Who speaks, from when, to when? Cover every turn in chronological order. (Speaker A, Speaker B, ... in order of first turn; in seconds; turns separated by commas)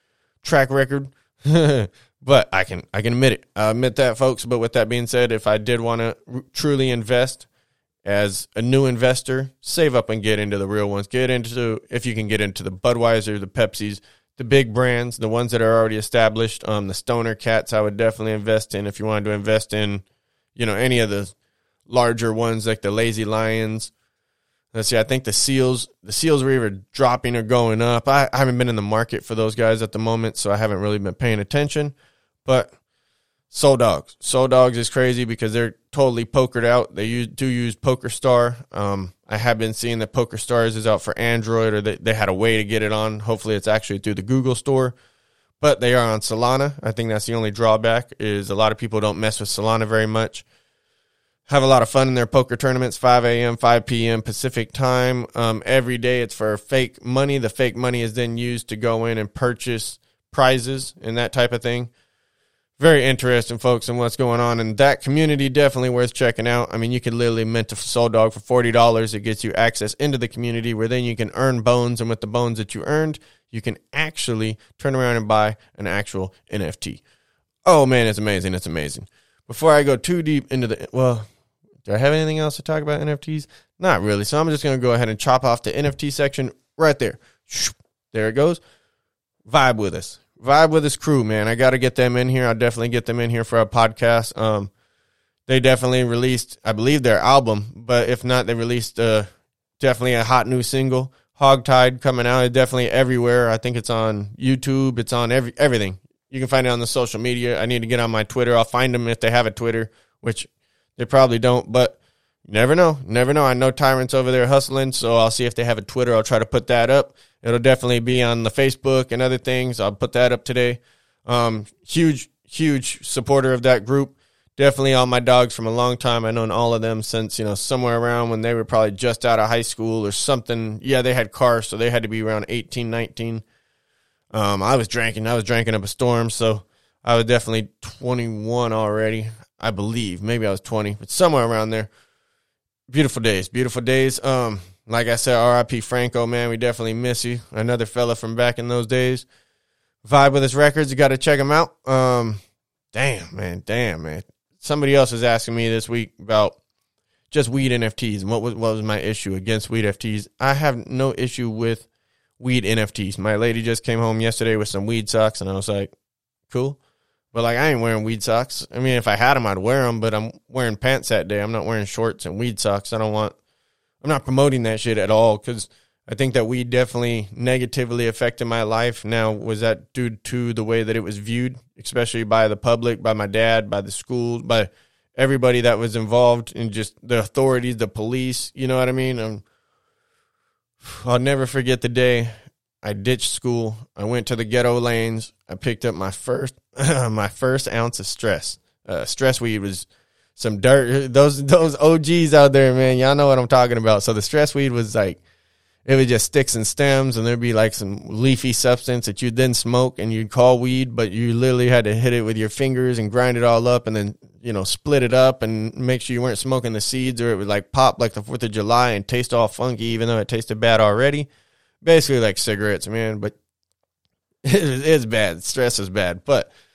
Speaker A: 0.4-7.5, Speaker A: 8.0-20.0, Speaker A: 20.6-21.3, Speaker A: 21.9-23.9, Speaker A: 24.7-31.9, Speaker A: 32.5-32.7, Speaker A: 33.5-45.0, Speaker A: 45.6-50.5, Speaker A: 51.5-61.9, Speaker A: 62.8-77.0, Speaker A: 77.7-81.3, Speaker A: 81.8-88.6, Speaker A: 89.5-94.7, Speaker A: 95.5-99.3, Speaker A: 99.8-133.4, Speaker A: 134.3-141.9, Speaker A: 142.9-149.3, Speaker A: 150.0-152.4, Speaker A: 152.9-156.6, Speaker A: 157.3-161.9, Speaker A: 162.4-165.9, Speaker A: 166.5-166.8, Speaker A: 167.3-173.3, Speaker A: 174.0-189.4, Speaker A: 190.8-205.2, Speaker A: 205.9-221.3, Speaker A: 221.8-223.3, Speaker A: 224.4-226.5